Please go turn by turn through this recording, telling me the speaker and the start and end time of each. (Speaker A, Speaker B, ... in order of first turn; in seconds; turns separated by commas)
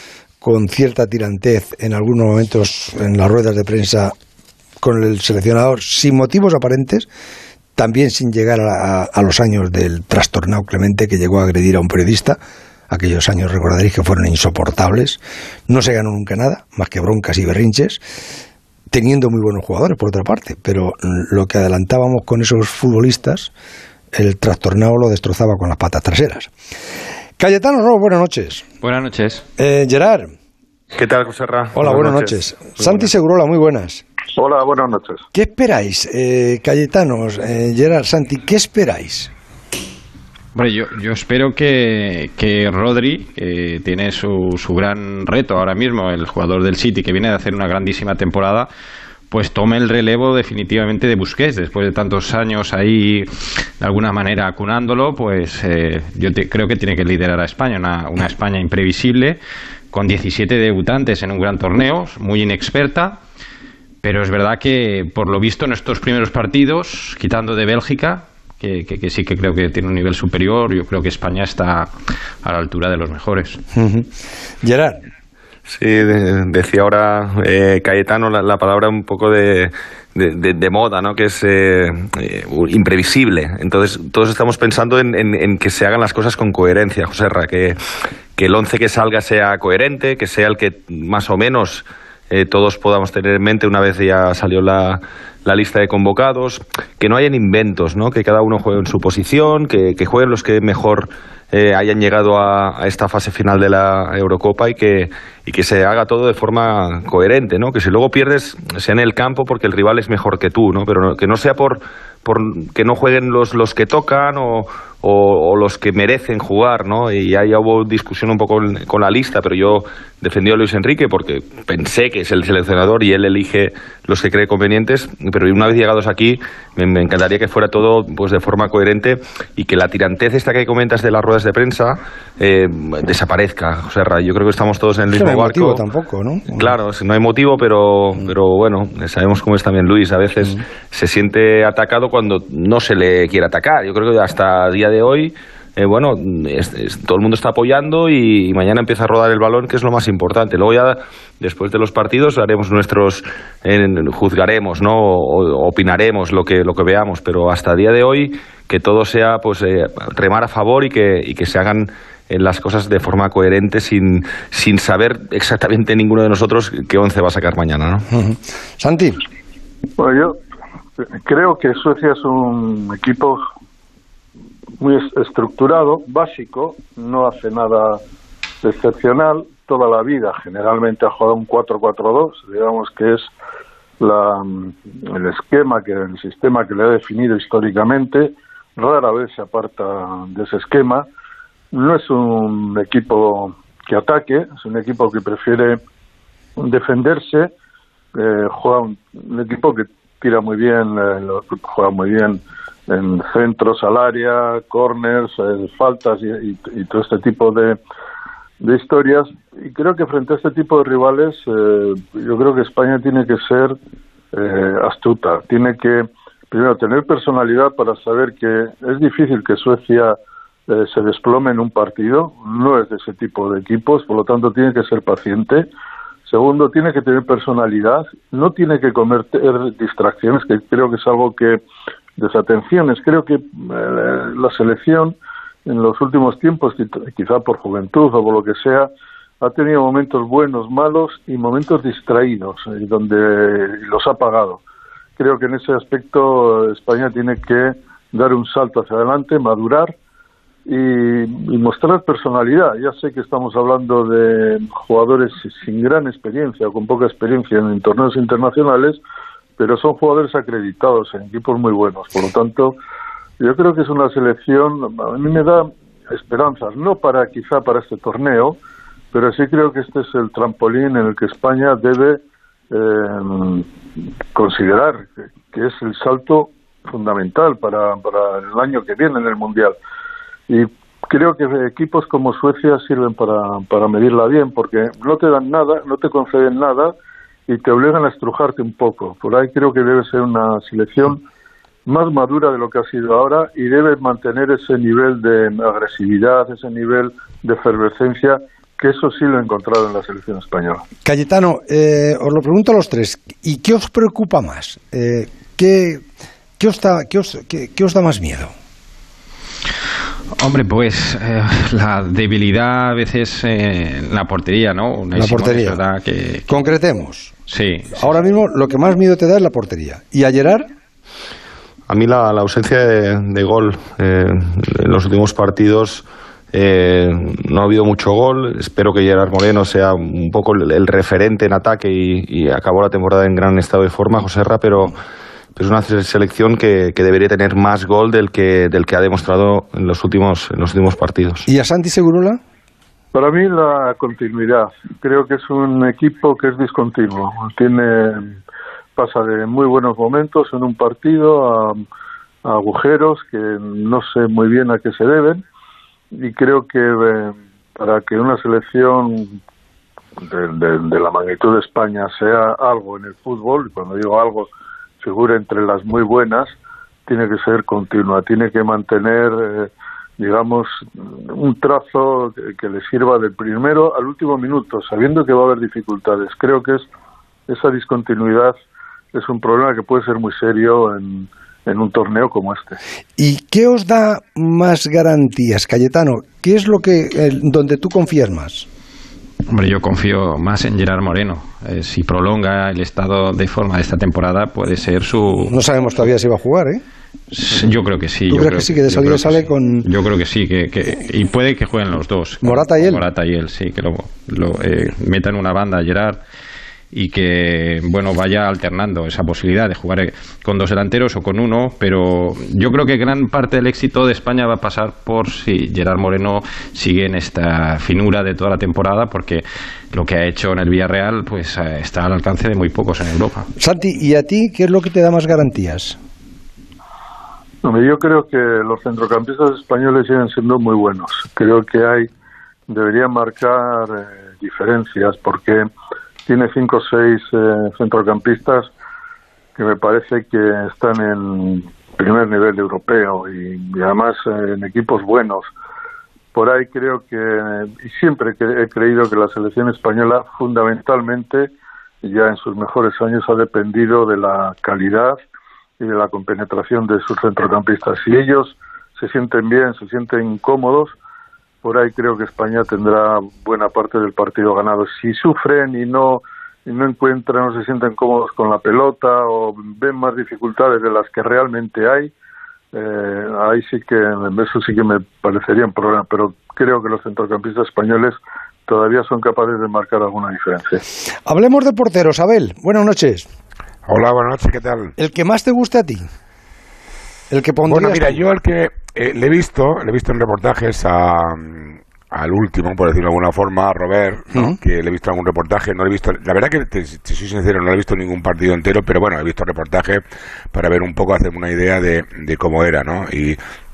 Speaker A: 0.4-4.1, Speaker A: 4.8-7.1, Speaker A: 7.8-12.4, Speaker A: 12.9-18.0, Speaker A: 18.9-23.5, Speaker A: 24.1-26.5, Speaker A: 27.4-28.6, Speaker B: 28.8-29.4, Speaker A: 29.6-30.3, Speaker C: 30.9-33.1, Speaker A: 31.8-34.0, Speaker D: 34.3-35.2, Speaker A: 35.3-39.3, Speaker B: 40.5-48.7, Speaker B: 49.3-53.3, Speaker B: 53.8-59.4, Speaker B: 59.9-63.2, Speaker B: 64.0-71.9, Speaker B: 72.4-73.6, Speaker A: 73.7-74.1, Speaker A: 74.6-75.0, Speaker C: 75.6-87.8, Speaker C: 88.3-135.8, Speaker A: 135.1-136.7, Speaker C: 136.5-168.1, Speaker A: 168.1-169.2, Speaker D: 170.0-170.4, Speaker D: 171.0-173.4, Speaker D: 174.8-178.0, Speaker D: 178.6-183.3, Speaker D: 184.0-191.1, Speaker D: 191.7-195.8, Speaker D: 196.6-197.5, Speaker D: 198.1-207.8, Speaker D: 208.6-213.8, Speaker D: 214.3-220.2, Speaker D: 220.7-225.7, Speaker D: 226.2-231.6, Speaker D: 232.2-244.6, Speaker D: 245.2-249.9, Speaker D: 250.7-259.0, Speaker D: 259.6-262.8, Speaker D: 263.4-268.6, Speaker D: 269.1-273.7, Speaker D: 274.3-279.8, Speaker D: 280.5-286.9, Speaker D: 287.5-291.2, Speaker D: 291.9-300.8, Speaker A: 301.0-306.0, Speaker A: 306.6-308.5, Speaker B: 310.4-316.5, Speaker A: 315.1-315.8, Speaker A: 316.5-317.3, Speaker B: 317.5-318.0, Speaker A: 317.9-320.7, Speaker C: 321.9-335.0, Speaker C: 335.6-341.5, Speaker A: 341.4-342.4, Speaker D: 343.1-348.4, Speaker D: 348.9-351.8, Speaker D: 352.4-355.4, Speaker D: 356.1-359.4, Speaker D: 360.2-364.5, Speaker D: 365.0-376.9, Speaker D: 377.5-378.5, Speaker D: 379.1-382.8, Speaker A: 383.2-388.6, Speaker B: 389.5-395.6, Speaker A: 395.4-396.8, Speaker B: 397.3-406.2, Speaker A: 398.3-399.9, Speaker A: 402.4-403.0, Speaker B: 406.9-423.5, Speaker A: 423.6-426.0, Speaker D: 427.6-432.1, Speaker D: 432.7-435.7, Speaker D: 436.2-438.7, Speaker D: 439.6-445.5, Speaker D: 446.3-455.2, Speaker D: 455.8-460.9, Speaker D: 461.6-472.1, Speaker D: 472.7-480.8, Speaker A: 481.2-483.3, Speaker E: 483.9-484.9, Speaker A: 485.0-486.1, Speaker A: 487.3-488.2, Speaker E: 487.6-500.0, Speaker E: 500.5-503.4